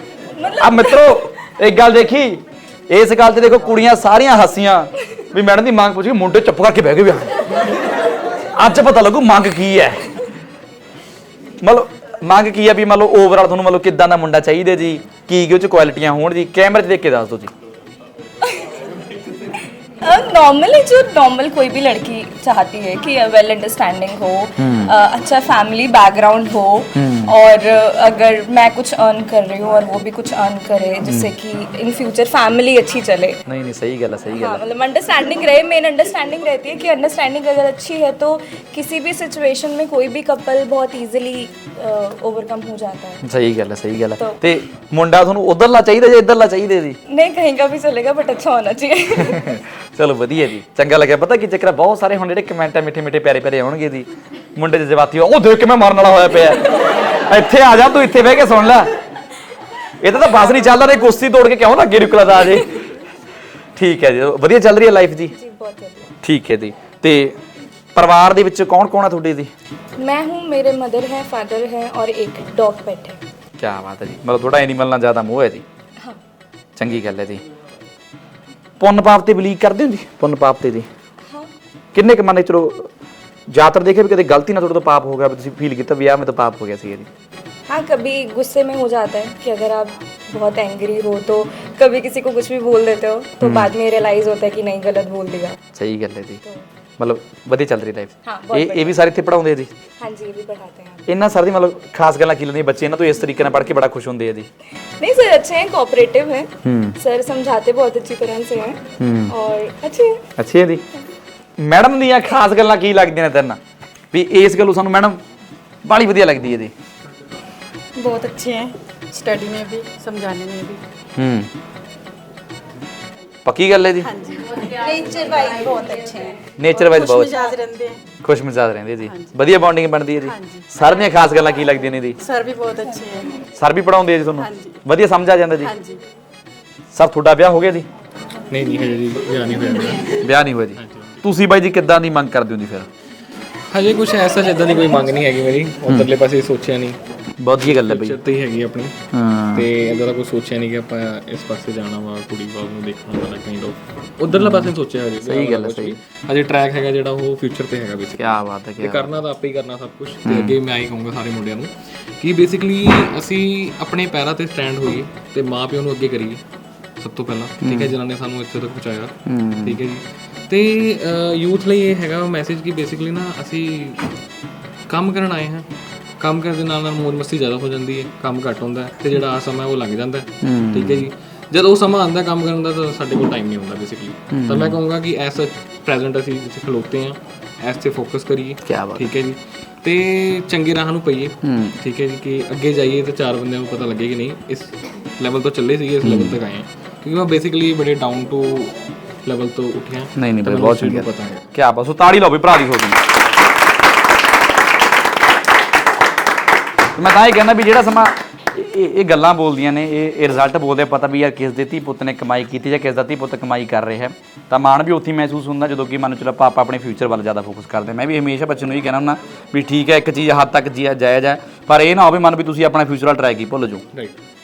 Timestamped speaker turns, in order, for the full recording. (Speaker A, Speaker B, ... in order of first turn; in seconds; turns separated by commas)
Speaker A: 0.3-1.2, Speaker B: 0.6-7.4, Speaker B: 8.6-10.1, Speaker B: 11.6-17.5, Speaker A: 18.4-18.7, Speaker A: 20.0-33.4, Speaker B: 24.6-24.9, Speaker B: 26.9-27.3, Speaker B: 31.1-31.3, Speaker B: 33.5-34.6, Speaker A: 34.3-43.2, Speaker B: 43.2-47.0, Speaker A: 47.1-49.6, Speaker B: 49.2-56.7, Speaker B: 57.2-58.9, Speaker B: 60.0-62.8, Speaker B: 63.8-65.3, Speaker A: 65.3-66.1, Speaker B: 66.2-67.4, Speaker B: 68.0-69.5, Speaker A: 70.0-73.2, Speaker B: 73.6-75.6, Speaker B: 76.8-77.4, Speaker B: 78.8-80.9, Speaker B: 82.0-82.9, Speaker B: 83.5-87.1, Speaker A: 87.7-95.6, Speaker B: 93.4-93.7, Speaker B: 95.8-96.4, Speaker B: 97.0-99.7, Speaker A: 98.2-99.1, Speaker A: 100.0-101.1, Speaker B: 101.1-104.5, Speaker A: 105.0-110.2, Speaker B: 106.6-107.0, Speaker B: 109.0-109.3, Speaker B: 110.4-110.8, Speaker B: 111.6-113.6, Speaker B: 114.1-115.2, Speaker B: 115.8-116.7, Speaker C: 118.0-120.8, Speaker B: 121.2-121.5, Speaker B: 123.5-124.1, Speaker C: 124.0-128.0, Speaker B: 126.6-127.4, Speaker B: 128.2-132.2, Speaker C: 129.1-129.3, Speaker C: 130.2-130.7, Speaker C: 132.2-133.4, Speaker B: 133.6-135.7, Speaker C: 134.4-134.8, Speaker C: 135.6-136.0, Speaker B: 136.9-137.9, Speaker D: 138.5-140.2, Speaker B: 140.2-142.9, Speaker D: 140.8-141.2, Speaker D: 143.7-147.0, Speaker B: 147.4-148.2, Speaker D: 147.6-149.0, Speaker B: 149.1-149.7, Speaker D: 149.5-166.4, Speaker B: 154.3-156.0, Speaker B: 158.2-159.1, Speaker B: 160.2-160.6, Speaker D: 167.0-174.1, Speaker B: 167.6-167.9, Speaker B: 169.3-169.8, Speaker D: 174.9-175.7, Speaker D: 176.2-201.4, Speaker B: 180.4-181.1, Speaker B: 184.3-184.8, Speaker B: 188.7-189.1, Speaker B: 191.4-191.8, Speaker B: 196.0-196.4, Speaker B: 200.2-203.0, Speaker B: 207.0-223.8